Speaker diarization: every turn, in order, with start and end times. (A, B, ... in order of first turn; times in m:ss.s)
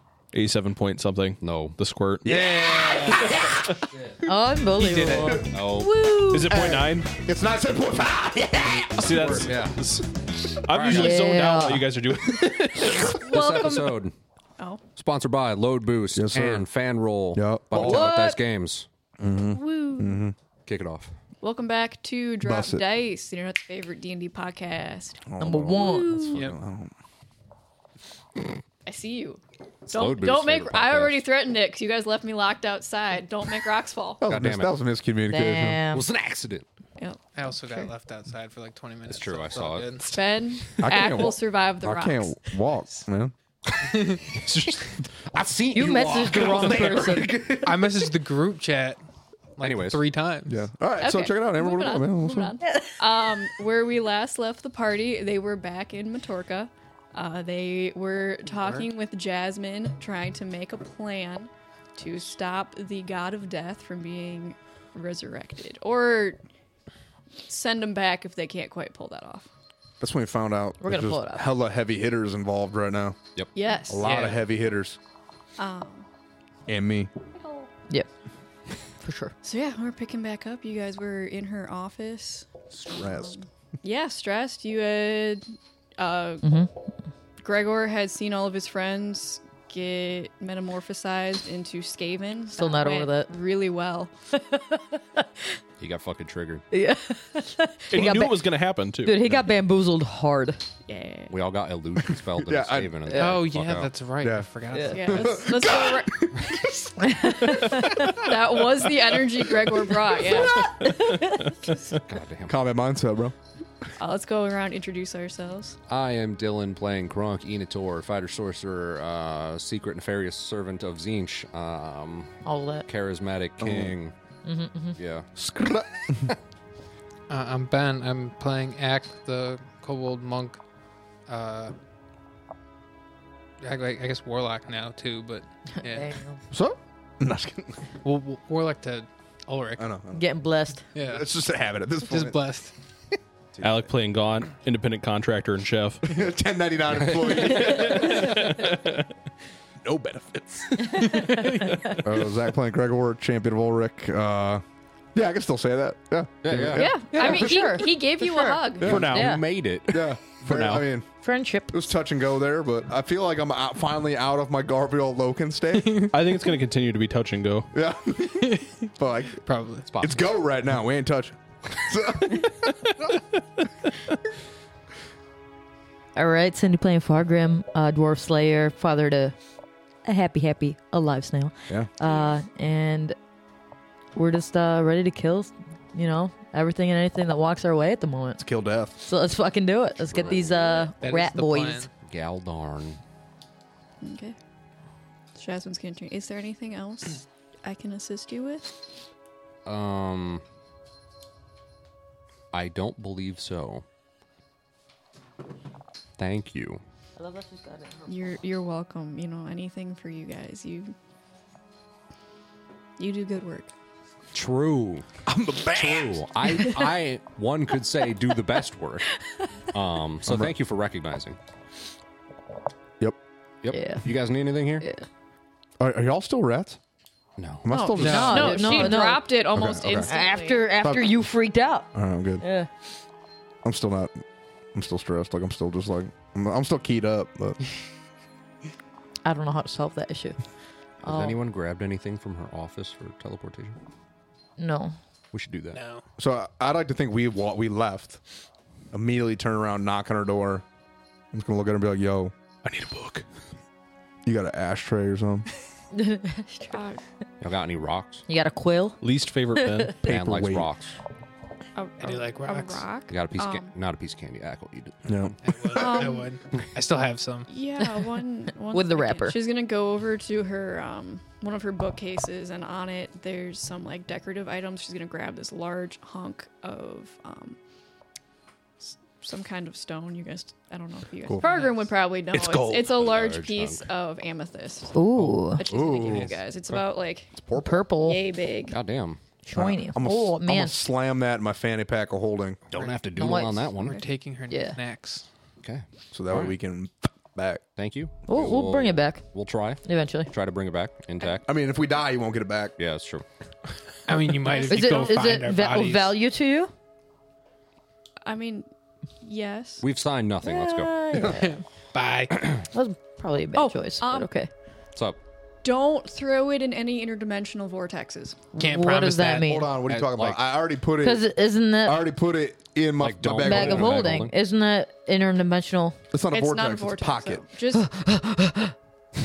0:00.3-0:02.2 A
0:01.4-0:01.8 B
0:02.2-0:03.7 C
0:04.2-0:06.5 D
0:04.7-0:05.6 E
0:05.5-0:05.9 B
0:06.3-0:07.1 A
0:06.4-0:09.5 C
0:09.0-0:10.0 A
0:09.1-0:09.8 B
0:10.6-0:13.2 A
0:10.9-0:11.9 D
0:13.1-0:14.1 B
0:13.2-0:14.0 F
0:15.0-0:18.9 B
0:16.1-0:16.6 C
0:17.3-0:18.3 C
0:17.8-0:18.4 D
0:19.2-0:20.3 C
0:19.5-0:20.2 F
0:20.6-0:21.1 B
0:21.4-0:26.4 F
0:22.4-0:22.8 C
0:25.2-0:26.9 C
0:25.4-0:26.4 D
0:28.8-0:34.2 F
0:29.8-0:31.2 B
0:34.2-0:35.8 C
0:34.2-0:34.8 B
0:35.3-0:36.1 D
0:35.9-0:36.6 B
0:37.0-0:37.9 F
0:37.3-0:40.7 E
0:39.1-0:40.0 B
0:40.1-0:42.3 F
0:40.8-0:43.3 C
0:43.7-0:48.1 B
0:44.0-0:44.2 E
0:44.4-0:44.8 A
0:45.7-0:47.4 D
0:46.5-0:47.0 E
0:47.6-0:49.0 E
0:49.6-0:50.5 E
0:49.6-0:50.0 B
0:50.5-0:52.5 C
0:51.0-1:06.4 F
0:52.7-0:52.9 D
1:07.5-1:09.5 F
1:10.0-1:13.2 C
1:10.8-1:11.5 D
1:13.5-1:14.2 F
1:13.9-1:15.0 C
1:14.0-1:14.4 E
1:15.6-1:16.1 F
1:16.7-1:17.1 C
1:17.3-1:17.7 F
1:19.0-1:19.3 D
1:19.4-1:26.4 F
1:22.7-1:23.4 C
1:26.4-1:26.7 D
1:27.4-1:34.1 F
1:32.5-1:33.3 D
1:34.4-1:34.8 D
1:35.8-1:36.6 B
1:36.7-1:38.5 D
1:37.9-1:39.2 A
1:39.0-1:40.6 D
1:40.9-1:41.3 F
1:41.3-1:43.9 B
1:42.4-1:43.0 C
1:43.1-1:43.4 D
1:43.1-1:45.4 E
1:44.2-1:44.5 C
1:44.7-1:45.0 D
1:44.9-1:46.6 F
1:45.0-1:50.9 C
1:47.0-1:48.1 D
1:47.7-1:50.7 F
1:50.4-1:51.4 D
1:51.0-1:51.7 A
1:52.0-1:52.6 B
1:52.5-1:53.3 C
1:54.0-1:55.8 F
1:55.9-2:04.1 B
2:02.4-2:02.8 D
2:03.6-2:04.0 C
2:04.4-2:05.0 D
2:05.0-2:05.3 B
2:05.4-2:06.3 C
2:07.3-2:10.6 E
2:11.3-2:11.7 E
2:13.6-2:16.2 E
2:15.8-2:16.4 D
2:16.5-2:17.8 C
2:18.0-2:19.8 E
2:19.8-2:20.2 C
2:20.1-2:20.8 D
2:20.9-2:21.2 E
2:21.0-2:22.4 C
2:22.1-2:22.7 E
2:23.6-2:23.9 C
2:23.6-2:26.0 A
2:26.0-2:28.7 C
2:27.1-2:27.4 B
2:28.0-2:29.1 A
2:29.8-2:31.1 C
2:30.9-2:32.0 D
2:31.1-2:31.7 E
2:32.0-2:34.6 C
2:35.1-2:37.7 C
2:36.4-2:36.9 B
2:36.7-2:39.0 F
2:37.1-2:39.4 D
2:38.8-2:39.1 C
2:38.8-2:40.2 B
2:38.8-2:39.4 A
2:39.9-2:41.0 C
2:40.4-2:40.8 A
2:41.2-2:41.9 D
2:41.7-2:46.1 C
2:45.8-2:46.1 E
2:46.1-2:47.7 A
2:47.7-2:49.4 C
2:48.4-2:48.7 E
2:49.4-2:49.9 E
2:49.9-2:50.3 B
2:50.0-2:52.7 C
2:52.6-2:53.1 A
2:56.1-2:59.3 D
3:00.0-3:03.2 D
3:04.1-3:08.4 D
3:08.4-3:09.0 C
3:09.0-3:11.9 D
3:10.1-3:10.7 B
3:11.0-3:11.9 E
3:12.0-3:13.0 B
3:14.0-3:14.4 F
3:15.4-3:18.8 F
3:19.6-3:20.4 B
3:22.5-3:23.8 B
3:26.2-3:26.8 B
3:27.2-3:28.4 D
3:28.1-3:30.9 F
3:33.0-3:33.7 F
3:34.3-3:35.0 B
3:35.2-3:36.2 C
3:35.7-3:39.1 B
3:39.7-3:41.4 B
3:40.2-3:40.5 C
3:43.6-3:44.8 B
3:43.7-3:44.1 D
3:44.8-3:45.0 D
3:45.8-3:46.8 C
3:47.4-3:47.7 B
3:47.6-3:49.0 C
3:47.7-3:50.7 F
3:48.0-3:52.7 D
3:48.0-3:48.9 E
3:49.5-3:50.1 C
3:50.8-3:51.1 C
3:51.9-3:52.4 C
3:53.6-3:54.2 C
3:54.7-3:57.6 C
3:59.2-4:00.4 D
4:01.0-4:03.8 B
4:01.0-4:01.4 D
4:04.6-4:04.9 D
4:05.3-4:05.8 B
4:05.7-4:06.0 E
4:06.2-4:08.2 C
4:08.9-4:10.6 C
4:11.3-4:12.3 C
4:12.6-4:13.2 A
4:14.2-4:15.4 C
4:15.9-4:16.8 D
4:16.7-4:17.0 F
4:17.4-4:18.2 B
4:18.3-4:19.0 D
4:19.0-4:20.0 A
4:19.5-4:19.9 D
4:20.0-4:20.7 C
4:20.0-4:20.9 B
4:21.8-4:23.7 F
4:22.0-4:22.9 E
4:23.1-4:25.3 B
4:25.0-4:26.1 C
4:25.4-4:27.5 E
4:25.7-4:26.3 F
4:27.5-4:37.6 F
4:27.8-4:29.4 D
4:38.8-4:44.9 F
4:41.4-4:41.7 E
4:42.3-4:42.9 C
4:42.9-4:43.9 B
4:44.9-4:45.6 D
4:45.5-4:47.3 F
4:45.7-4:46.8 C
4:46.1-4:46.3 B
4:47.3-4:47.8 C
4:47.6-4:48.2 D
4:48.0-4:48.8 F
4:48.7-4:49.2 B
4:49.4-4:50.8 D
4:49.5-4:52.7 C
4:52.7-4:54.0 B
4:52.8-4:53.2 E
4:53.2-4:53.6 D
4:53.8-4:55.3 E
4:54.5-4:54.8 D
4:55.6-4:56.5 B
4:56.1-4:57.6 C
4:57.8-5:01.5 B
4:58.3-4:59.2 D
4:59.8-5:00.3 D
5:01.5-5:02.7 C
5:02.8-5:03.2 B
5:04.1-5:06.1 E
5:04.5-5:05.2 F
5:04.6-5:06.7 D
5:08.2-5:08.7 F
5:09.2-5:09.8 F
5:09.8-5:10.9 B
5:10.4-5:11.5 D
5:11.2-5:12.3 E
5:12.7-5:14.5 D
5:13.5-5:14.3 F
5:15.6-5:18.5 F
5:18.5-5:19.8 D
5:18.5-5:20.0 E
5:19.4-5:21.3 C
5:20.0-5:20.4 B
5:21.0-5:22.1 D
5:21.8-5:24.0 C
5:23.0-5:24.3 B
5:23.4-5:26.0 D
5:26.1-5:27.4 C
5:26.3-5:27.9 F
5:27.7-5:28.7 D